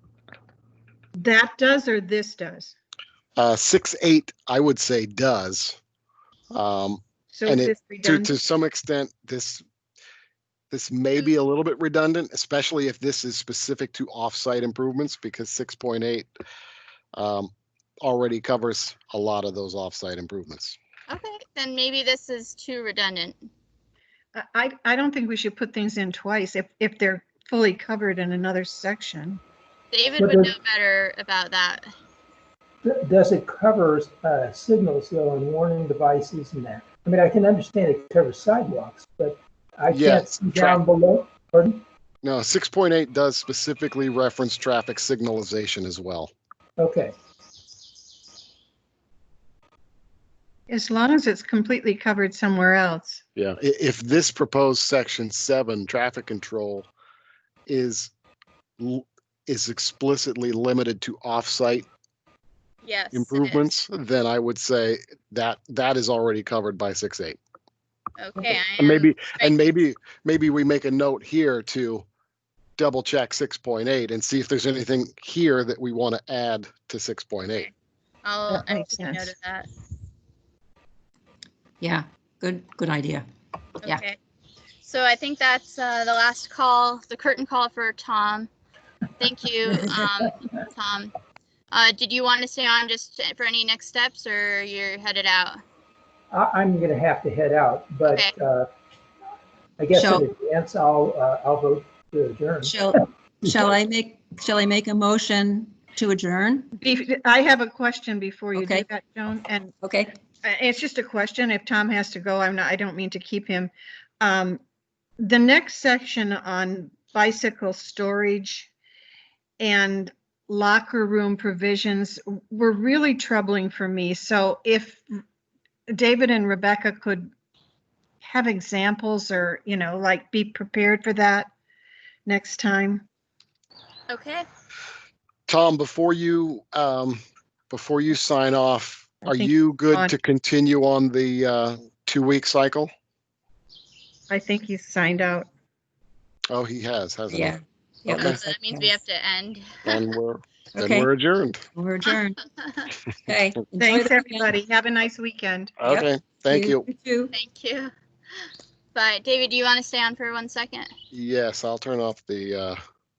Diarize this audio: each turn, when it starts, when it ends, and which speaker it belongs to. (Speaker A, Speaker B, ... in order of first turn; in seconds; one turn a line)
Speaker A: 1.2-2.8
Speaker B: 3.4-5.8
Speaker B: 6.5-9.6
Speaker A: 7.3-8.4
Speaker B: 10.7-16.3
Speaker B: 17.1-20.8
Speaker C: 21.1-23.4
Speaker A: 24.4-29.4
Speaker C: 29.9-31.9
Speaker D: 30.2-30.5
Speaker D: 32.8-41.8
Speaker B: 39.9-40.8
Speaker B: 42.2-46.3
Speaker D: 46.8-47.1
Speaker A: 50.7-53.2
Speaker B: 53.4-56.9
Speaker B: 57.7-58.1
Speaker B: 58.8-61.9
Speaker C: 62.8-63.6
Speaker B: 63.1-67.4
Speaker C: 68.2-69.7
Speaker B: 68.8-72.0
Speaker B: 72.8-77.7
Speaker C: 78.2-79.7
Speaker A: 78.5-79.3
Speaker E: 81.8-83.3
Speaker C: 83.8-84.2
Speaker C: 84.8-88.5
Speaker C: 89.2-91.1
Speaker C: 91.7-95.6
Speaker D: 96.3-98.7
Speaker C: 98.1-98.3
Speaker D: 99.8-102.8
Speaker E: 99.9-100.2
Speaker E: 102.6-106.7
Speaker A: 106.8-109.7
Speaker E: 108.5-108.9
Speaker E: 109.8-110.1
Speaker A: 110.4-114.6
Speaker A: 115.2-118.7
Speaker A: 119.6-125.1
Speaker A: 125.9-127.3
Speaker A: 128.2-131.5
Speaker A: 132.3-133.1
Speaker C: 134.1-134.4
Speaker B: 135.5-142.9
Speaker A: 139.2-140.1
Speaker A: 144.3-145.5
Speaker B: 146.5-148.4
Speaker E: 147.3-149.0
Speaker C: 148.2-150.0
Speaker B: 149.8-151.7
Speaker E: 150.8-151.1
Speaker E: 151.7-152.4
Speaker C: 152.6-152.9
Speaker E: 153.3-154.5
Speaker A: 153.8-155.8
Speaker B: 155.8-156.8
Speaker E: 155.8-157.3
Speaker C: 157.3-157.9
Speaker C: 158.9-160.9
Speaker B: 161.1-162.8